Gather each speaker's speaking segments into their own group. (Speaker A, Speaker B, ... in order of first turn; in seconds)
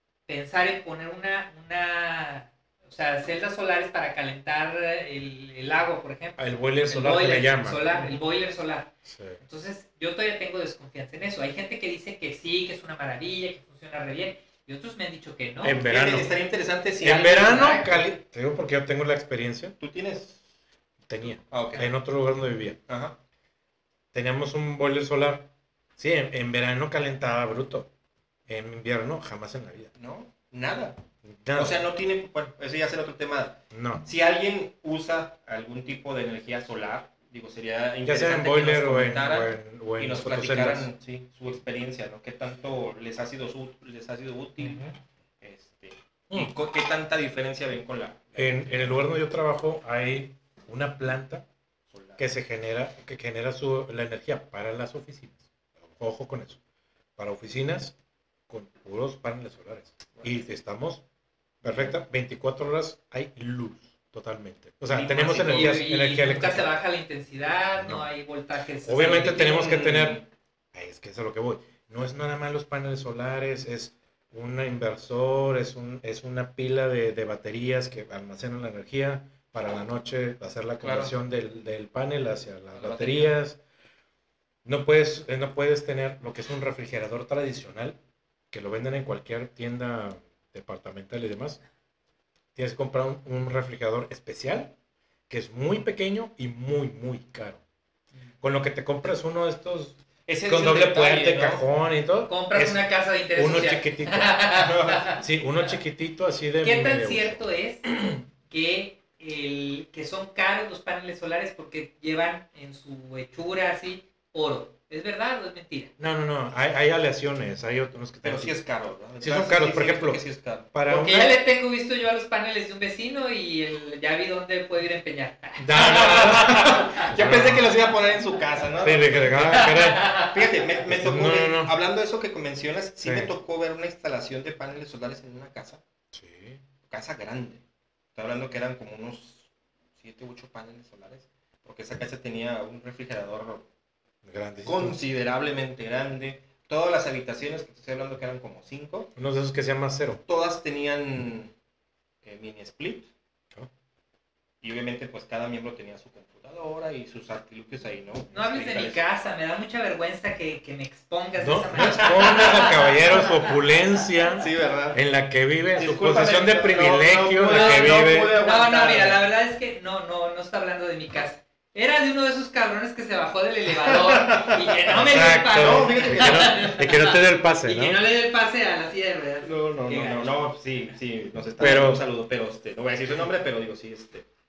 Speaker A: 0.3-15.8, 65.3-69.6, 102.3-105.2, 106.6-107.8, 108.5-115.9, 120.9-127.1, 129.5-130.3, 158.3-163.5, 167.5-180.3
Speaker B: 6.4-8.2, 9.1-9.4, 15.6-16.3, 17.0-19.8, 21.1-22.8, 24.1-27.9, 28.5-29.9, 31.2-31.8, 33.7-34.0, 38.0-40.9, 44.6-44.9, 48.4-51.5, 52.2-56.6, 57.2-58.0, 58.5-61.0, 61.6-66.7, 67.8-68.1, 68.8-70.2, 70.7-83.6, 84.6-88.0, 88.5-91.6, 92.5-94.7, 95.3-97.6, 98.4-104.4, 105.2-108.2, 116.0-118.5, 119.2-120.2, 120.7-121.4, 125.6-127.8, 128.8-130.1, 130.9-131.7, 133.0-133.3, 136.1-136.6, 144.2-145.0, 149.2-150.2, 161.4-168.3, 174.9-178.0, 181.6-182.0
Speaker C: 15.8-18.0, 19.8-20.4, 21.5-21.9, 22.9-23.2, 29.9-31.0, 31.5-49.0, 51.9-52.2, 60.1-60.4, 61.6-61.9, 64.9-65.8, 69.1-70.2, 80.8-81.1, 82.7-83.3, 100.3-101.6, 104.5-105.2, 118.2-120.7, 125.8-135.8, 136.9-137.6, 138.1-143.7, 144.6-149.1, 150.3-151.5, 152.2-153.1, 154.6-159.0, 164.3-165.0, 165.8-169.2, 173.8-176.7, 179.4-184.2